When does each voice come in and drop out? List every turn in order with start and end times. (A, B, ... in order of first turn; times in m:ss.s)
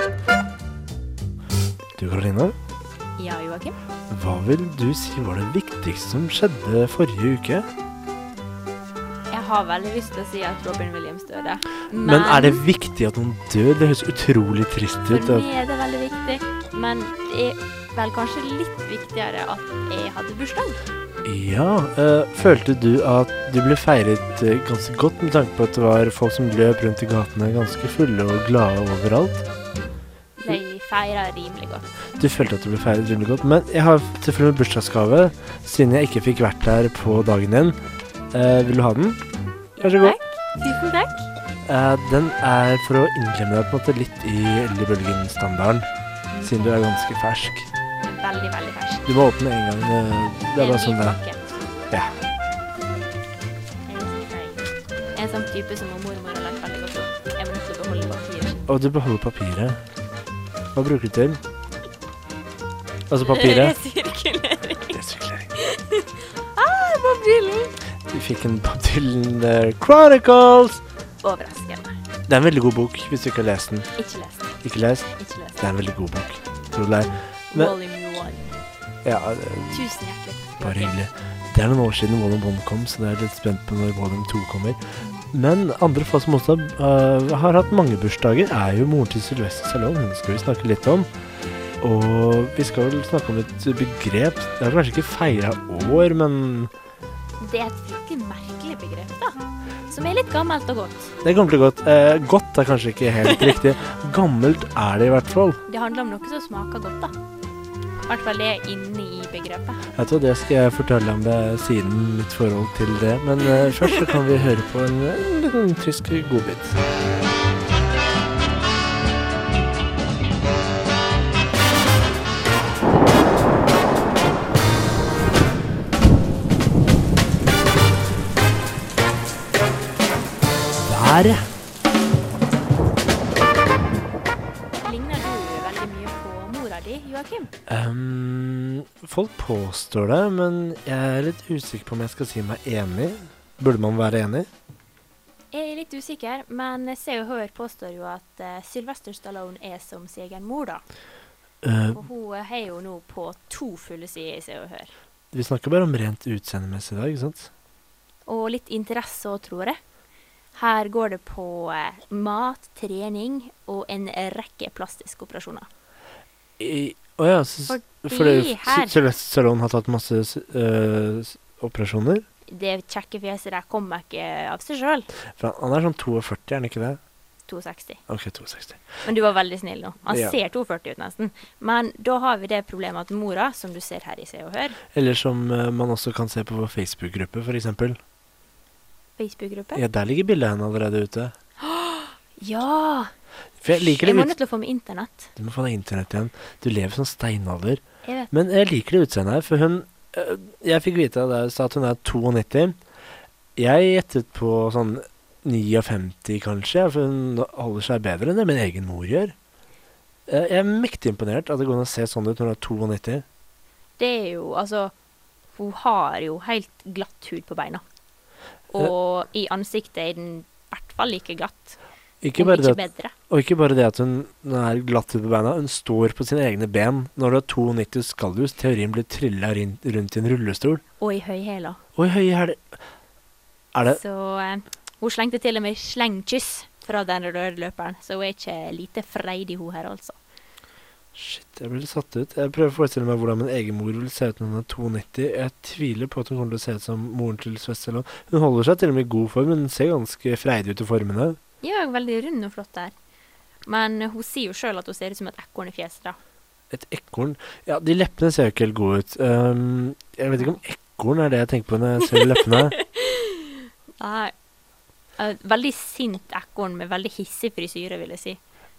0:02.0-0:02.6 A
0:03.2-0:03.7 B
0:04.1-0:07.7 A
0:09.3-0:12.6 B
0:12.0-0:15.5 A
0:15.1-0:20.8 B
0:21.2-0:29.4 A
0:30.4-0:32.0 B
0:32.2-0:37.8 A
0:38.3-0:39.2 A
0:39.8-0:41.3 B
0:39.8-0:40.2 A
0:41.6-0:45.9 A
0:46.3-0:46.6 B
0:46.4-0:47.7 A
0:48.0-0:49.2 B
0:49.1-0:51.2 A
0:50.6-0:51.5 B
0:53.9-0:58.7 B
0:58.7-0:59.8 A
1:00.7-1:01.4 A
1:03.1-1:03.8 A
1:03.2-1:05.0 B
1:04.9-1:05.6 A
1:05.6-1:07.8 B
1:08.1-1:10.8 A
1:11.2-1:12.0 B
1:12.3-1:13.9 A
1:14.0-1:14.6 B
1:14.6-1:17.8 A
1:15.2-1:15.6 B
1:17.5-1:18.6 B
1:19.0-1:19.9 A
1:19.7-1:21.0 B
1:20.6-1:24.8 A
1:25.3-1:31.1 A
1:31.8-1:36.7 A
1:37.4-1:41.1 B
1:41.2-1:45.6 A
1:45.7-1:47.2 B
1:48.1-1:49.8 B
1:49.9-1:56.8 A
2:10.8-2:11.5 A
2:14.8-2:17.5 B
2:17.7-2:24.5 A
2:25.5-2:30.8 B
2:31.6-2:32.0 A
2:31.9-2:34.9 B
2:35.3-2:37.5 A
2:38.3-2:39.8 B
2:40.6-2:45.7 B
2:46.6-2:52.2 A
2:47.7-2:49.0 B
2:52.5-2:55.1 B
2:55.4-2:57.0 A
2:57.5-2:58.0 B
2:58.1-2:58.9 A
2:59.0-3:04.8 B
3:00.1-3:00.4 A
3:04.9-3:08.0 A
3:09.2-3:09.8 B
3:09.8-3:11.3 A
3:11.6-3:13.1 B
3:13.6-3:14.4 A
3:13.7-3:15.3 B
3:15.4-3:22.8 A
3:18.0-3:18.3 B
3:23.6-3:29.4 A
3:30.3-3:33.2 A
3:34.0-3:34.9 B
3:35.5-3:37.8 B
3:38.7-3:41.8 B
3:42.2-3:50.8 A
3:42.4-3:43.1 B
3:51.0-3:51.8 B
3:52.0-3:52.8 A
3:53.7-3:54.0 A
3:53.8-4:00.2 B
4:01.2-4:11.4 A
4:11.6-4:12.9 B
4:13.7-4:16.2 B
4:16.7-4:22.8 A
4:22.1-4:24.3 B
4:25.2-4:28.4 B